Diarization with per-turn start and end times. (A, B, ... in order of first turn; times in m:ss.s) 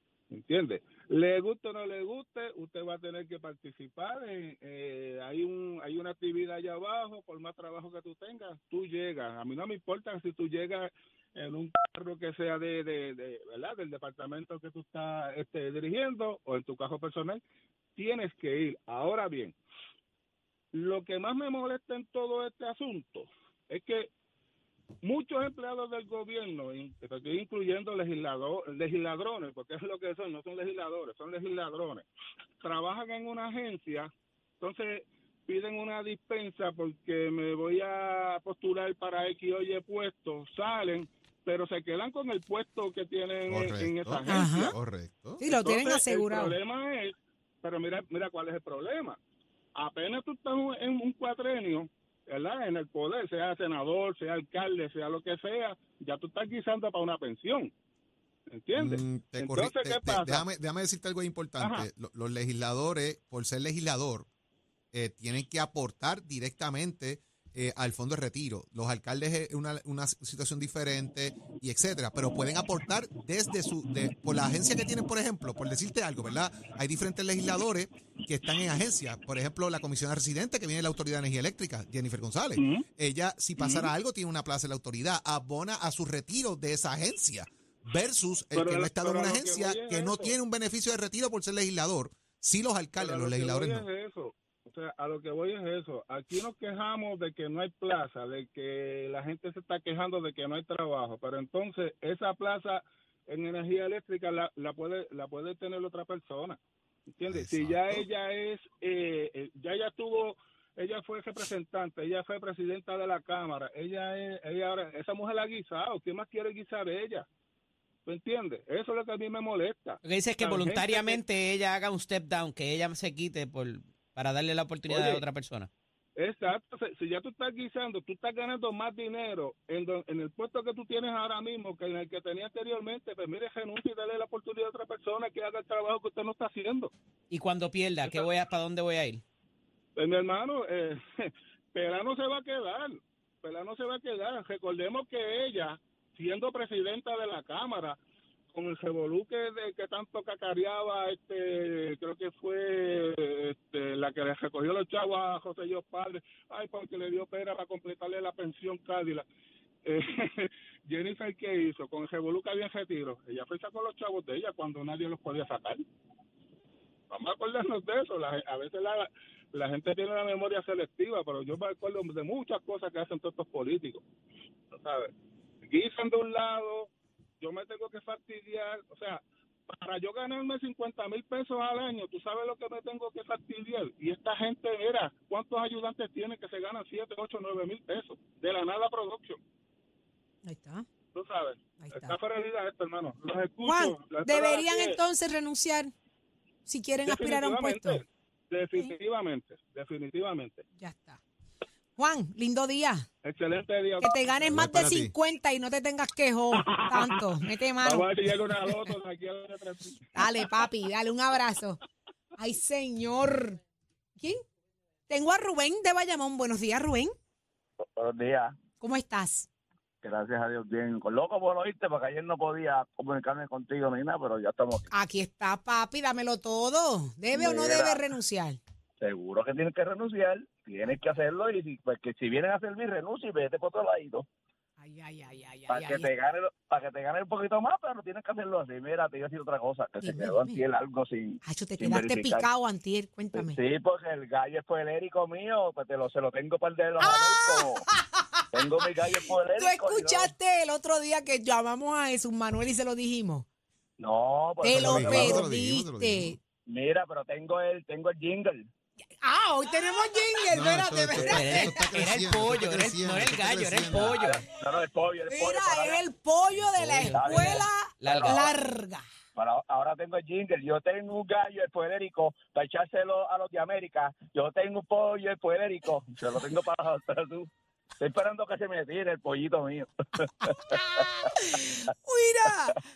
0:00.3-0:17.4 A
0:18.0-0:19.6 A
0:20.7-0:24.1 A
0:25.0-0:32.1 A
0:32.6-0:44.7 A
0:43.5-0:45.4 B
0:44.3-0:44.8 C
0:45.4-0:46.6 C
0:45.4-0:49.2 A
0:49.8-0:57.7 A
0:58.5-1:00.5 A
0:58.8-1:04.3 B
1:01.6-1:01.9 A
1:04.9-1:33.8 B
1:22.6-1:22.9 A
1:23.6-1:23.9 A
1:28.5-1:30.3 A
1:33.0-1:46.6 A
1:47.1-1:57.3 A
1:47.3-1:48.1 B
1:58.1-2:01.2 A
2:00.0-2:05.7 D
2:04.9-2:05.2 A
2:06.2-2:16.9 A
2:17.3-2:19.2 D
2:20.0-2:28.0 A
2:28.5-2:39.3 A
2:39.8-2:45.8 A
2:47.1-2:54.0 A
2:54.7-2:55.1 A
2:55.6-3:09.4 A
3:10.4-3:10.9 C
3:11.1-3:15.0 A
3:11.8-3:12.2 C
3:13.6-3:15.9 C
3:16.7-3:18.0 C
3:17.1-3:20.6 A
3:20.8-3:21.2 C
3:22.0-3:23.1 C
3:23.2-3:24.3 A
3:24.0-3:28.1 C
3:24.5-3:25.1 B
3:26.5-3:30.5 A
3:28.7-3:28.9 C
3:30.2-3:31.8 C
3:32.4-3:33.6 C
3:35.1-3:37.1 C
3:38.0-3:38.6 E
3:38.8-3:39.5 C
3:40.0-3:44.9 E
3:44.9-3:48.6 C
3:47.3-3:48.0 E
3:49.0-3:54.2 E
3:54.8-3:56.1 C
3:55.7-4:02.5 E
4:00.0-4:00.6 C
4:01.4-4:03.6 C
4:03.3-4:07.8 E
4:07.0-4:13.5 C
4:08.5-4:10.3 E
4:14.0-4:15.5 E
4:14.6-4:16.4 C
4:14.7-4:16.4 B
4:16.7-4:18.7 E
4:19.2-4:21.7 C
4:20.5-4:24.2 B
4:21.2-4:24.4 D
4:24.1-4:26.0 E
4:25.3-4:29.1 C
4:26.6-4:28.4 D
4:27.1-4:28.4 E
4:29.4-4:41.3 E
4:40.4-4:42.8 C